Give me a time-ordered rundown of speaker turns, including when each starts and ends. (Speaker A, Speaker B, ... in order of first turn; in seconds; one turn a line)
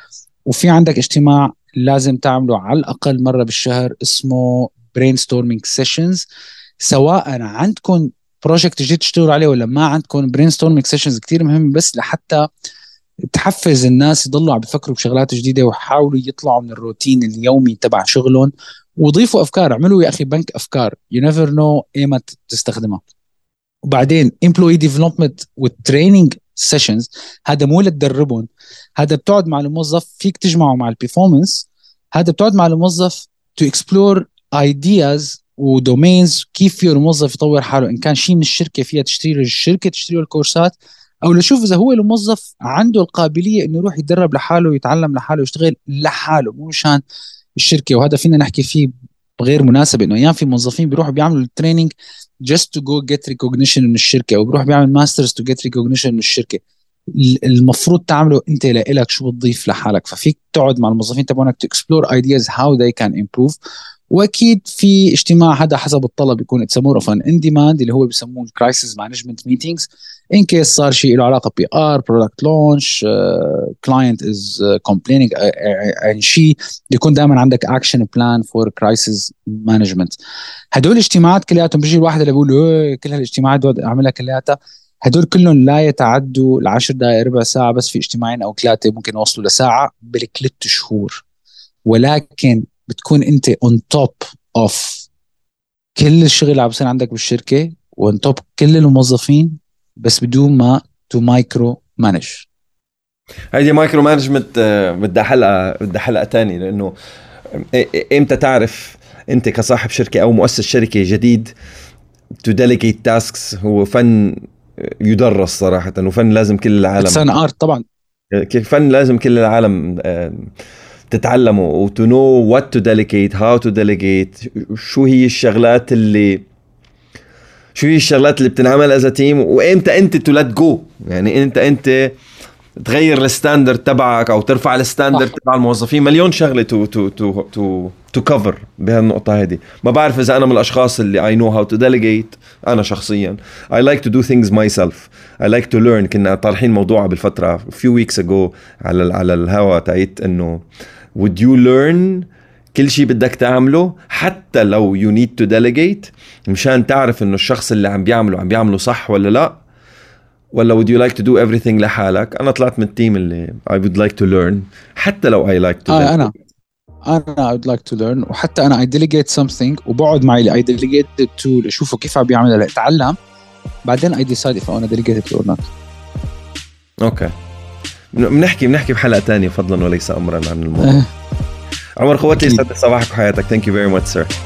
Speaker A: 0.5-6.2
Speaker A: 6.8-12.5
Speaker A: 13.3-23.1
Speaker A: 23.9-47.0
Speaker A: 47.5-51.9
Speaker A: 52.5-63.6
Speaker A: 64.1-80.2
Speaker A: 80.7-91.2
Speaker A: 91.8-95.1
Speaker A: 96.0-102.5
Speaker B: 103.5-106.9
Speaker B: 107.5-111.5
Speaker B: 112.4-117.2
Speaker A: 117.0-117.8
Speaker B: 118.3-120.5
Speaker B: 121.1-126.4
Speaker B: 127.7-132.2
Speaker B: 132.8-150.6
Speaker B: 151.2-159.6
Speaker B: 160.5-166.3
Speaker A: 165.9-166.3
Speaker A: 167.1-173.2
Speaker A: 173.8-175.7
Speaker B: 177.0-177.3
Speaker B: 178.1-181.0
Speaker A: 180.8-181.1
Speaker B: 182.0-184.3
Speaker A: 182.3-182.6